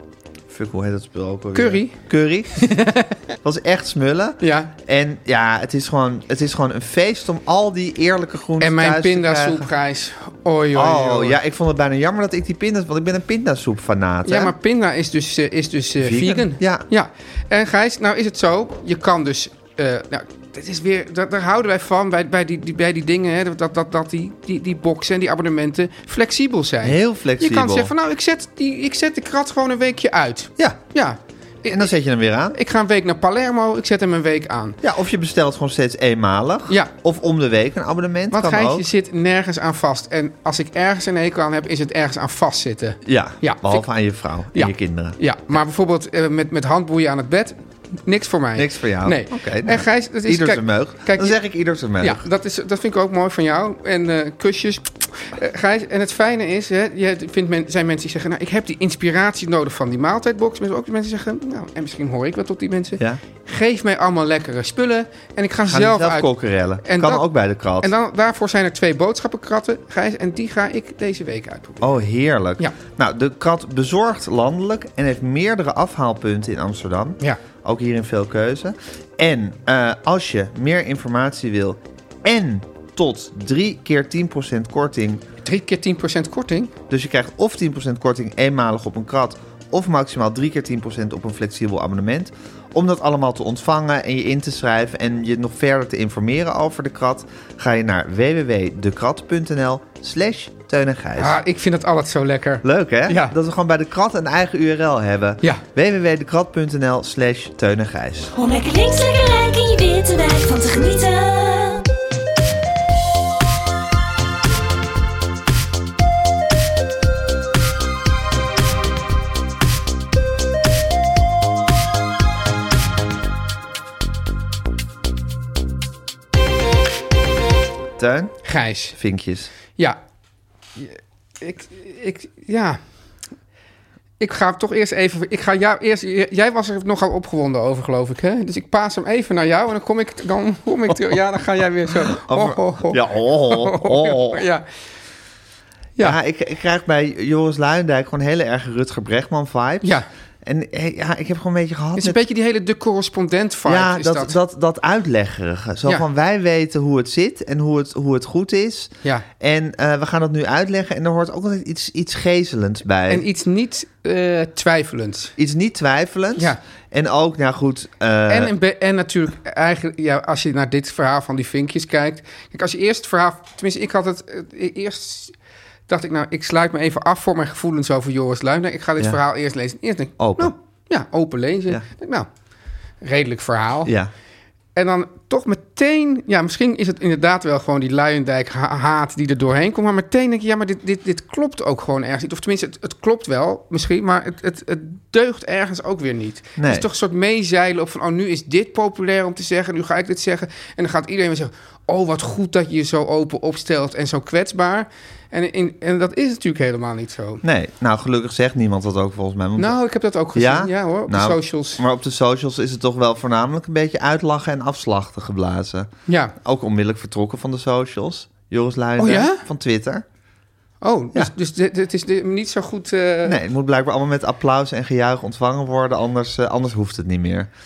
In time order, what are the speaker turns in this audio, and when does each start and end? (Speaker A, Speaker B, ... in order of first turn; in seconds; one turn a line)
Speaker A: 0.5-2.8
Speaker B: 1.5-2.0
Speaker B: 2.6-3.2
Speaker A: 3.4-9.7
Speaker B: 4.4-4.7
Speaker B: 8.6-11.4
Speaker A: 10.7-14.5
Speaker B: 14.2-31.9
Speaker A: 16.0-16.9
Speaker A: 26.8-27.9
Speaker A: 31.7-32.6
Speaker B: 32.5-34.8
Speaker A: 34.8-38.9
Speaker B: 38.3-43.9
Speaker A: 43.0-45.2
Speaker B: 44.5-51.4
Speaker A: 48.6-52.2
Speaker B: 52.0-66.3
Speaker A: 65.7-67.9
Speaker B: 66.8-67.2
Speaker B: 67.8-71.9
Speaker A: 71.8-85.2
Speaker B: 85.4-86.7
Speaker A: 86.9-101.4
Speaker B: 101.2-103.3
Speaker A: 102.6-108.3
Speaker C: 108.3-111.9
Speaker A: 128.0-129.5
Speaker B: 128.4-129.0
Speaker B: 130.8-132.8
Speaker B: 134.2-144.7
Speaker A: 142.1-144.4
Speaker A: 146.0-152.2
Speaker B: 152.0-154.3
Speaker A: 153.7-163.2
Speaker B: 163.1-165.3
Speaker A: 165.4-168.5
Speaker B: 168.3-175.3
Speaker B: 175.9-182.3
Speaker A: 180.2-180.5
Speaker B: 183.0-183.9
Speaker A: 183.8-184.1
Speaker B: 184.8-207.4
Speaker A: 196.6-196.9
Speaker A: 207.4-209.8
Speaker B: 209.6-211.8
Speaker A: 210.3-220.1
Speaker B: 216.1-216.3
Speaker B: 219.0-219.4
Speaker B: 220.8-223.4
Speaker A: 223.2-227.5